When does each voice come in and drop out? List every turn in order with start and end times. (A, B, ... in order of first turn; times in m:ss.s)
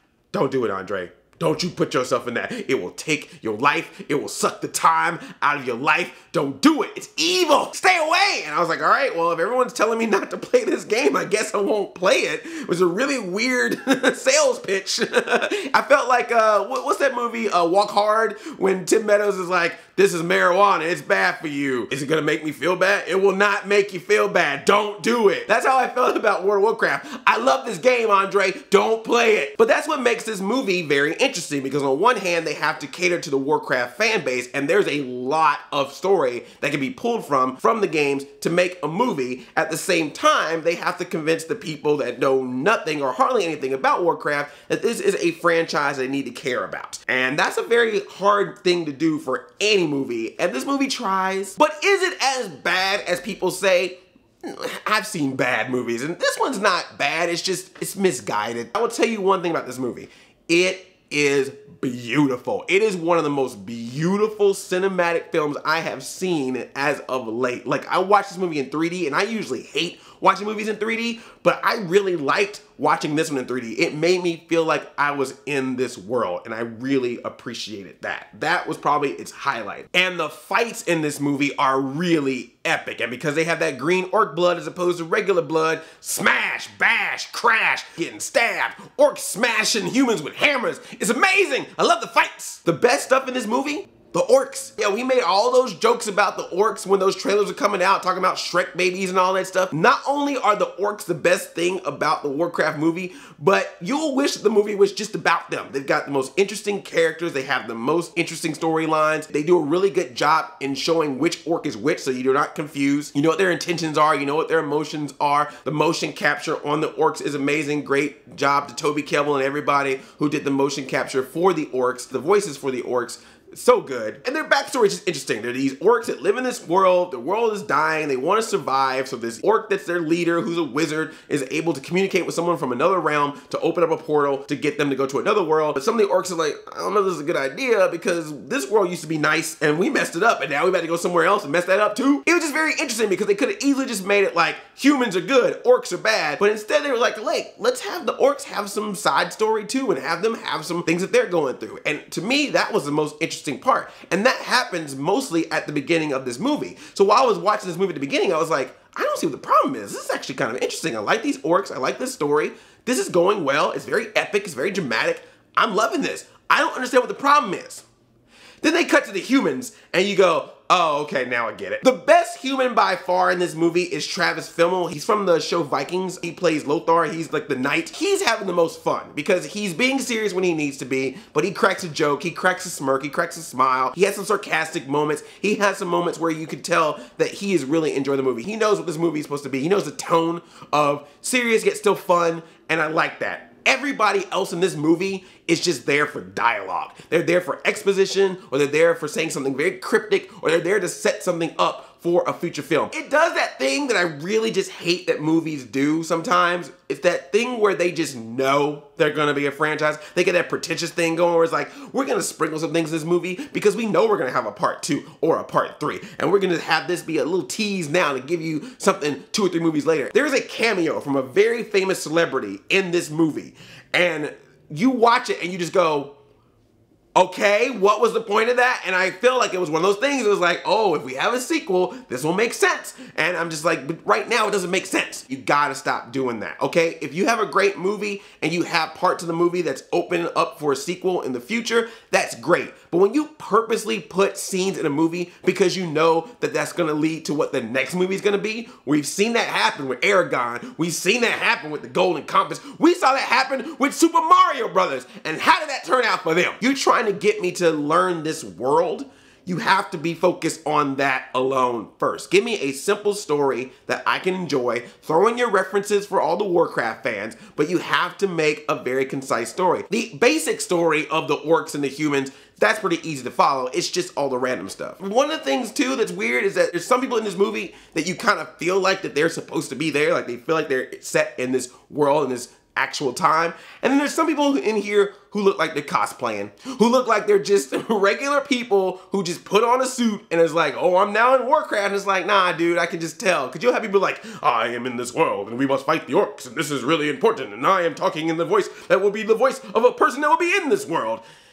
0:00.3-2:47.8 A
2:48.6-3:46.1 A
3:47.1-5:01.2 A